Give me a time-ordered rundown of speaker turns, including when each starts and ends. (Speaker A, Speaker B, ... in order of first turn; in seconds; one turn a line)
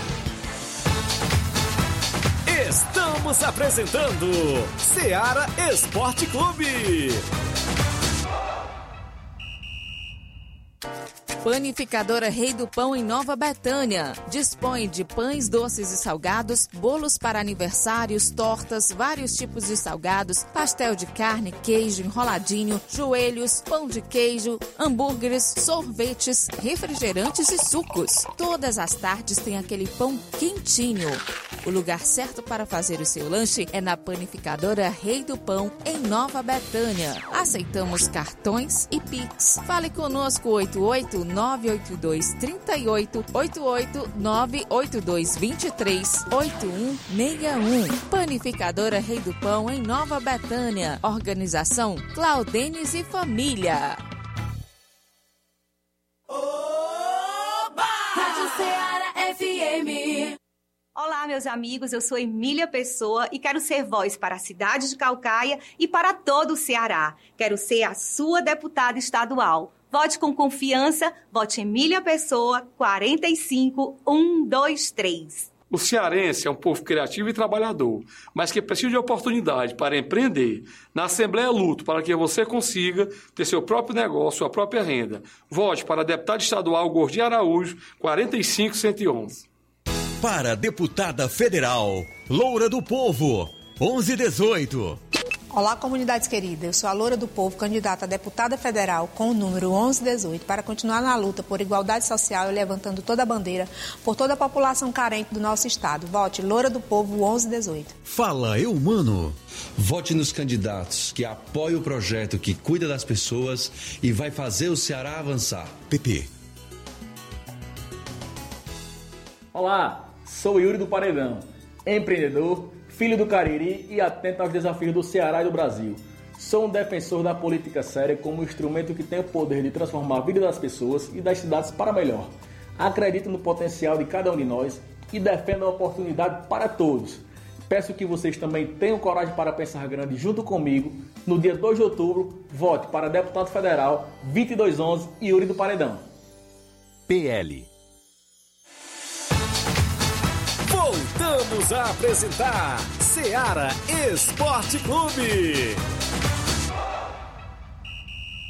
Speaker A: 2.5-7.2
Speaker B: 11.4-54.0
Speaker C: 61.0-75.5
Speaker D: 75.7-89.4
Speaker E: 90.2-95.0
Speaker F: 95.5-107.9
Speaker G: 108.1-116.3
Speaker H: 119.5-146.1
Speaker E: 147.1-147.7
Speaker A: 150.6-155.8